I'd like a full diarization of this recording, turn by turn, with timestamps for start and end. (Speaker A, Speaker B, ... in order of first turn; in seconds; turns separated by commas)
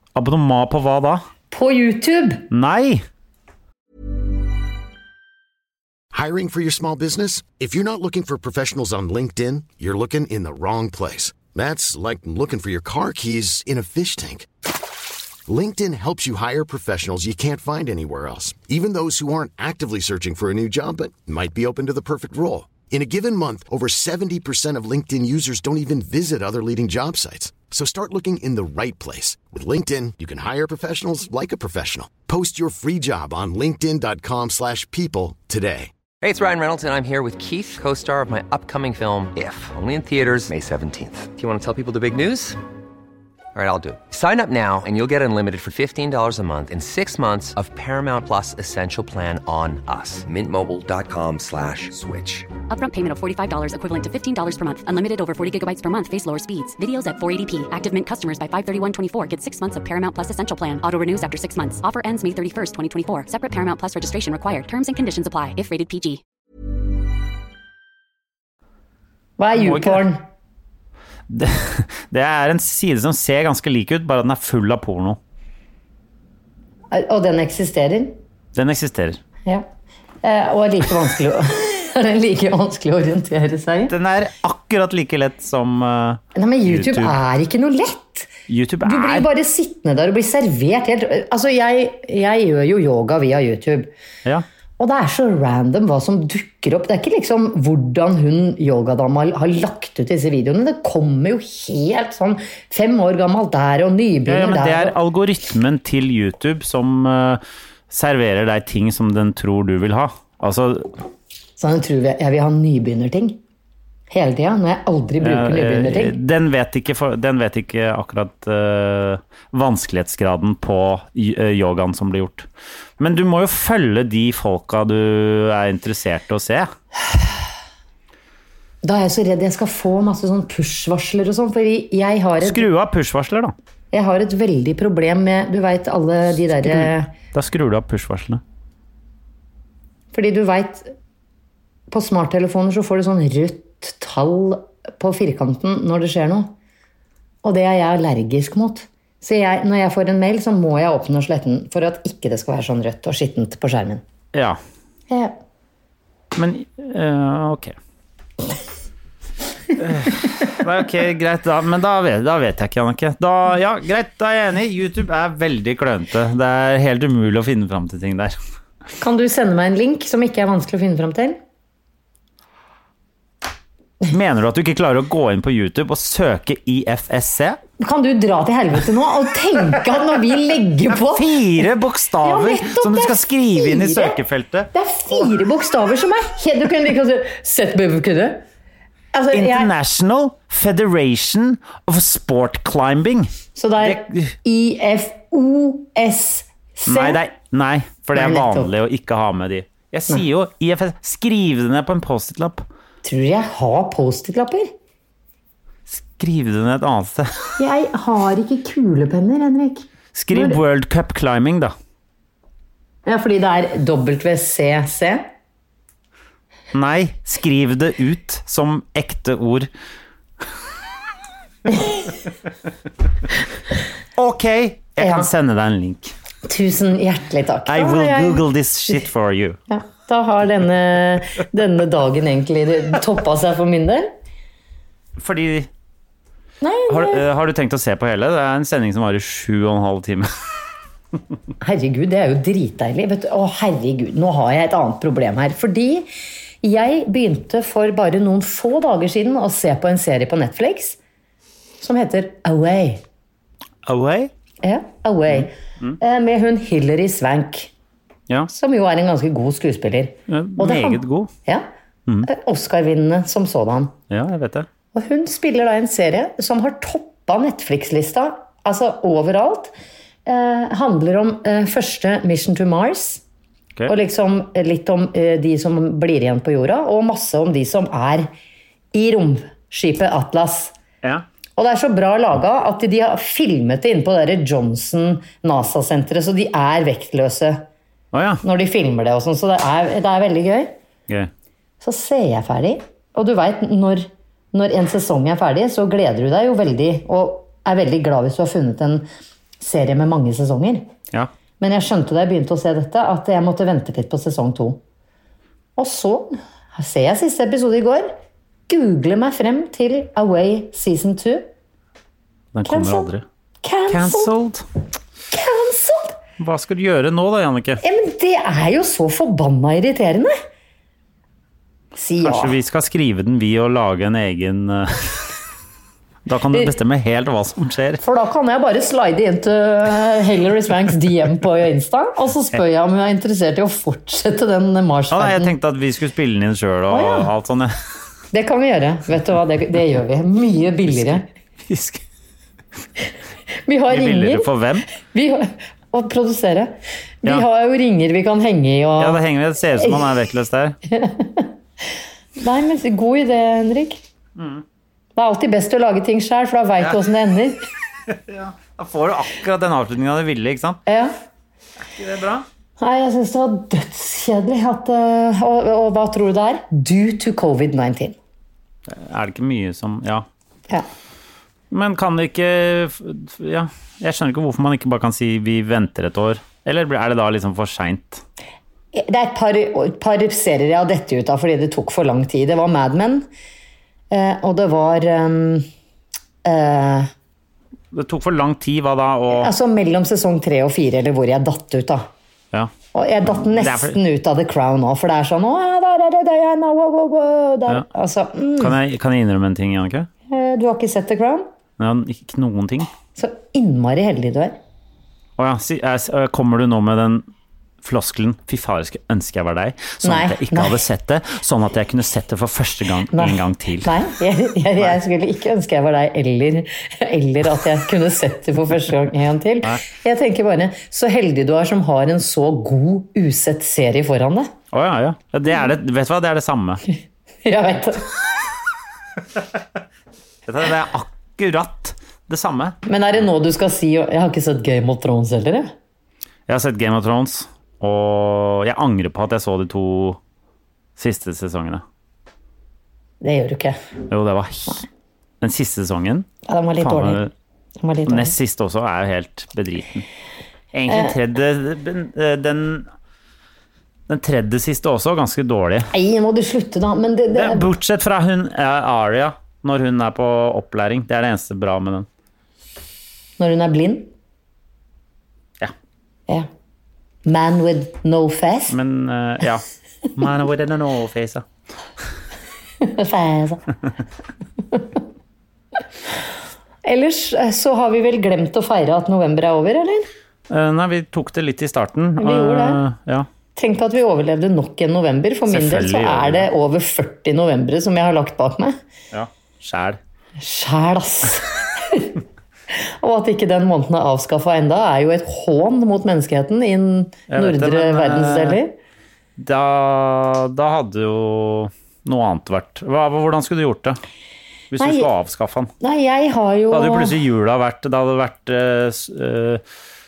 Speaker A: 0.1-1.2, Speaker B: 1.5-2.5, Speaker A: 2.5-3.0, Speaker C: 6.1-14.5, Speaker C: 15.5-35.9, Speaker D: 36.2-42.6, Speaker D: 43.5-52.5, Speaker E: 52.7-66.2, Speaker B: 69.4-70.2, Speaker A: 69.5-70.0, Speaker A: 71.3-75.2, Speaker B: 76.9-78.2, Speaker A: 78.5-79.2, Speaker B: 80.2-83.9, Speaker A: 83.9-87.2, Speaker B: 86.3-88.3, Speaker A: 88.5-89.3, Speaker B: 88.8-93.9, Speaker B: 94.8-104.9, Speaker A: 104.3-110.9, Speaker B: 111.6-113.4, Speaker B: 114.1-116.2, Speaker A: 115.2-126.7, Speaker B: 128.8-132.7, Speaker A: 132.4-133.5, Speaker B: 133.9-137.1, Speaker A: 136.6-138.4, Speaker B: 140.1-140.9, Speaker B: 141.9-146.5, Speaker B: 147.4-154.0, Speaker A: 154.3-154.6, Speaker B: 155.1-155.4, Speaker A: 156.3-157.8, Speaker A: 159.8-168.3, Speaker B: 169.0-171.4, Speaker A: 174.1-177.6, Speaker B: 177.8-181.4, Speaker A: 180.9-184.7, Speaker B: 182.2-184.2, Speaker B: 184.7-188.4, Speaker B: 189.1-189.7, Speaker A: 189.3-194.3, Speaker B: 193.5-197.2, Speaker A: 196.8-202.7, Speaker B: 198.1-198.7, Speaker B: 203.0-204.7, Speaker A: 205.9-207.5, Speaker B: 207.6-210.6, Speaker A: 210.1-211.7, Speaker B: 213.1-215.2, Speaker A: 216.7-219.7, Speaker B: 221.7-222.0, Speaker A: 224.2-226.1, Speaker B: 225.0-225.3, Speaker B: 226.4-228.4, Speaker A: 227.7-229.6, Speaker B: 229.7-234.1, Speaker A: 235.2-235.7, Speaker B: 236.6-237.2, Speaker A: 236.9-240.3, Speaker B: 241.6-246.1, Speaker B: 246.6-251.0, Speaker B: 251.8-253.0, Speaker A: 253.8-254.3, Speaker B: 254.6-257.7, Speaker A: 255.3-255.9, Speaker B: 258.5-261.7, Speaker A: 260.3-261.3, Speaker B: 262.2-263.9, Speaker A: 264.1-264.7, Speaker B: 264.9-269.7, Speaker B: 270.2-273.2, Speaker B: 273.9-278.3, Speaker B: 278.9-280.7, Speaker B: 281.6-287.6, Speaker A: 288.1-288.4, Speaker B: 288.4-290.7, Speaker B: 291.8-299.1, Speaker B: 299.6-300.9, Speaker B: 301.6-304.8, Speaker B: 305.8-308.1, Speaker B: 308.7-311.5, Speaker A: 312.5-313.2, Speaker B: 312.6-313.1, Speaker B: 313.6-314.3, Speaker A: 313.9-314.6, Speaker B: 315.3-316.2, Speaker A: 316.4-317.8, Speaker B: 317.8-320.3, Speaker B: 321.9-322.6, Speaker A: 322.2-325.4, Speaker A: 326.2-328.0, Speaker B: 328.0-335.5, Speaker A: 335.1-337.7, Speaker B: 336.9-337.3, Speaker B: 338.3-341.2, Speaker A: 340.9-342.0, Speaker B: 343.7-349.2, Speaker A: 343.9-344.9, Speaker A: 349.0-350.8, Speaker B: 350.9-351.5, Speaker B: 352.4-354.0, Speaker A: 354.4-354.6, Speaker B: 355.1-357.6, Speaker A: 358.1-360.8, Speaker B: 360.9-361.1, Speaker A: 361.9-362.4, Speaker B: 362.8-368.2, Speaker A: 368.9-370.2, Speaker A: 371.7-378.2, Speaker B: 378.9-383.2, Speaker B: 384.1-385.7, Speaker B: 386.4-387.1, Speaker A: 387.9-389.5, Speaker B: 389.3-392.1, Speaker B: 392.9-398.8, Speaker A: 393.2-394.0, Speaker A: 398.6-400.1, Speaker B: 400.3-401.5, Speaker A: 401.8-402.9, Speaker B: 403.2-404.6, Speaker A: 405.4-407.3, Speaker A: 407.8-414.0, Speaker B: 410.0-410.8, Speaker B: 413.1-424.5, Speaker A: 424.7-426.8, Speaker B: 427.4-428.1, Speaker A: 430.4-432.8, Speaker B: 432.9-435.7, Speaker A: 436.5-440.2, Speaker A: 440.9-441.8, Speaker B: 443.2-443.8, Speaker A: 444.1-444.9, Speaker A: 445.4-446.3, Speaker B: 446.4-447.2, Speaker A: 446.8-447.3, Speaker B: 447.8-448.3, Speaker A: 448.1-450.1, Speaker A: 450.7-452.9, Speaker B: 450.9-451.1, Speaker A: 454.1-455.9, Speaker B: 455.9-457.7, Speaker A: 457.3-462.1, Speaker B: 463.4-464.1, Speaker B: 467.2-468.8, Speaker A: 468.7-471.4, Speaker B: 472.8-473.6, Speaker B: 476.8-480.1, Speaker A: 480.5-483.3, Speaker B: 482.2-482.8, Speaker B: 483.5-488.8, Speaker A: 485.5-486.5, Speaker A: 489.1-490.0, Speaker B: 490.4-492.2, Speaker B: 492.7-498.8, Speaker A: 497.3-498.6, Speaker A: 499.4-504.0, Speaker A: 504.7-505.7, Speaker B: 504.8-505.1, Speaker B: 505.8-507.1, Speaker A: 506.7-509.6